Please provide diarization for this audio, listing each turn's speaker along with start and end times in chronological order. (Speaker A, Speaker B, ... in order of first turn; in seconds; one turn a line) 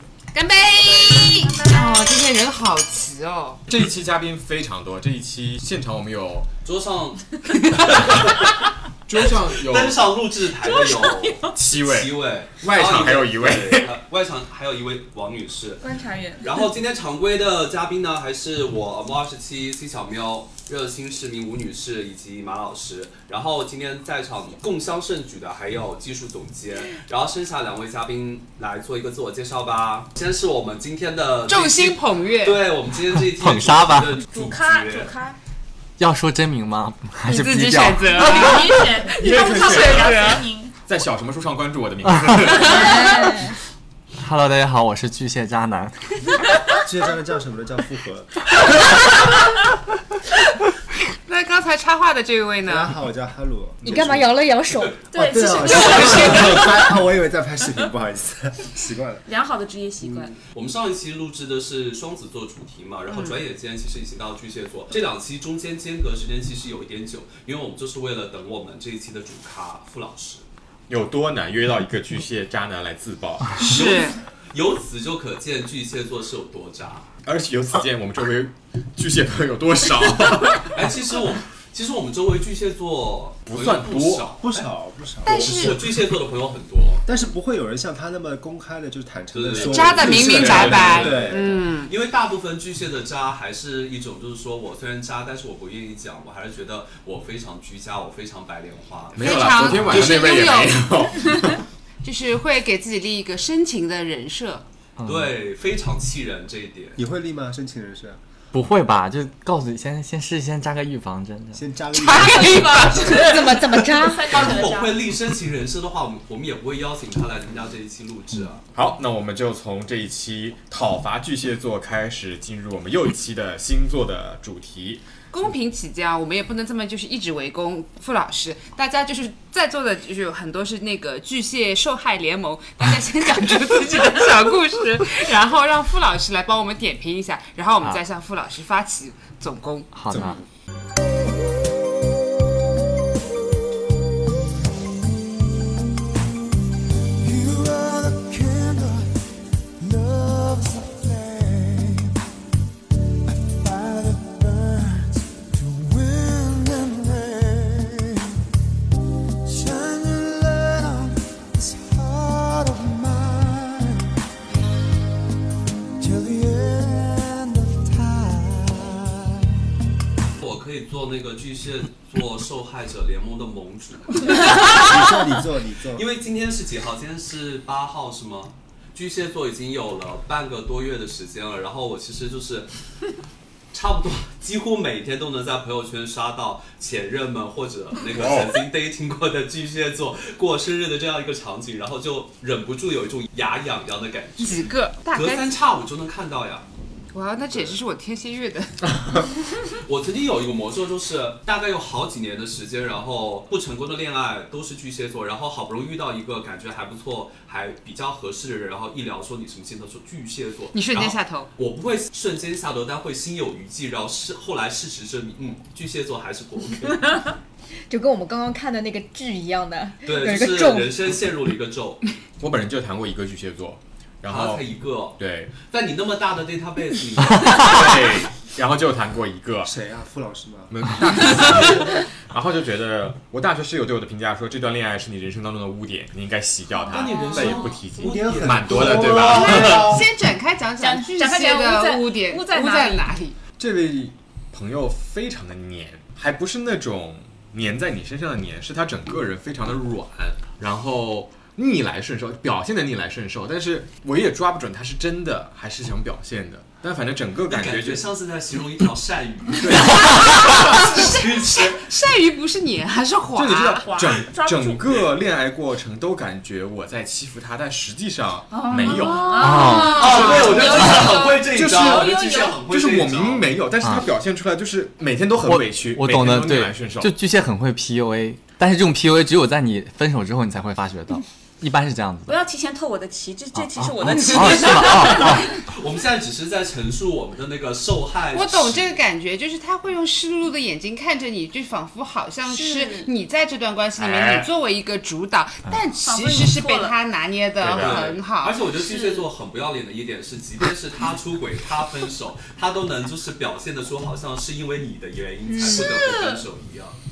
Speaker A: 0.3-3.6
Speaker B: 0.7-1.6
Speaker C: 3.7-6.5
Speaker B: 6.7-8.6
Speaker C: 9.1-10.2
Speaker B: 9.2-15.9
Speaker D: 10.7-11.5
Speaker C: 11.5-13.9
Speaker D: 15.8-16.6
Speaker B: 16.4-35.1
Speaker A: 31.5-32.6
Speaker E: 33.1-34.2
Speaker D: 34.3-35.4
Speaker E: 36.0-38.3
Speaker A: 37.3-40.4
Speaker D: 38.1-40.7
Speaker C: 39.1-43.2
Speaker E: 42.0-42.7
Speaker F: 42.7-43.6
Speaker E: 44.2-46.3
Speaker G: 46.9-48.4
Speaker A: 51.3-53.0
Speaker G: 52.6-54.0
Speaker C: 53.8-54.3
Speaker F: 53.8-55.1
Speaker D: 55.1-56.9
Speaker G: 55.1-59.2
Speaker D: 59.2-60.4
Speaker B: 60.4-70.5
Speaker C: 70.9-73.9
Speaker A: 73.6-74.2
Speaker B: 73.7-77.1
Speaker C: 77.2-80.8
Speaker B: 80.7-84.7
Speaker C: 83.5-84.3
Speaker G: 84.4-86.0
Speaker A: 85.2-85.8
Speaker B: 85.2-87.0
Speaker G: 87.1-91.6
Speaker B: 89.3-100.0
Speaker A: 89.7-91.9
Speaker C: 90.0-91.3
Speaker C: 99.1-101.6
Speaker A: 99.2-101.1
Speaker A: 102.0-104.7
Speaker E: 105.0-105.3
Speaker B: 105.0-107.0
Speaker G: 107.0-108.2
Speaker E: 108.5-111.6
Speaker G: 111.5-113.3
Speaker A: 112.0-113.1
Speaker D: 112.0-115.0
Speaker F: 113.1-114.4
Speaker B: 114.3-118.6
Speaker C: 118.7-125.0
Speaker A: 125.3-139.9
Speaker E: 139.9-140.4
Speaker G: 140.1-140.4
Speaker H: 147.2-149.2
Speaker H: 149.8-152.2
Speaker H: 153.2-158.4
Speaker H: 159.4-164.1
Speaker H: 166.0-169.4
Speaker B: 170.4-174.9
Speaker G: 174.7-176.1
Speaker B: 175.9-182.7
Speaker B: 183.7-196.7
Speaker C: 188.1-188.6
Speaker A: 194.4-195.5
Speaker A: 197.1-198.9
Speaker B: 197.5-197.8
Speaker B: 199.8-217.3
Speaker A: 210.7-211.5
Speaker F: 217.9-220.9
Speaker B: 220.0-222.1
Speaker C: 222.4-224.7
Speaker B: 224.3-228.3
Speaker C: 225.2-225.5
Speaker C: 227.5-229.7
Speaker G: 229.6-230.8
Speaker C: 230.7-240.0
Speaker D: 236.9-237.8
Speaker B: 236.9-239.8
Speaker G: 237.9-240.1
Speaker A: 239.1-243.4
Speaker D: 240.8-243.1
Speaker C: 243.6-258.1
Speaker B: 257.5-261.9
Speaker C: 259.6-260.9
Speaker A: 259.9-263.9
Speaker C: 263.4-269.6
Speaker D: 263.9-265.1
Speaker D: 268.5-272.6
Speaker A: 268.9-271.4
Speaker E: 269.4-270.0
Speaker B: 269.8-273.5
Speaker G: 271.6-272.0
Speaker C: 271.6-271.9
Speaker C: 272.6-277.1
Speaker E: 273.8-274.1
Speaker E: 275.4-282.4
Speaker D: 282.3-285.5
Speaker E: 283.6-285.5
Speaker B: 285.0-289.0
Speaker A: 288.3-298.6
Speaker D: 292.4-293.1
Speaker C: 294.0-294.5
Speaker D: 296.0-297.0
Speaker C: 297.6-298.1
Speaker B: 297.7-307.0
Speaker D: 298.8-299.3
Speaker D: 305.6-306.4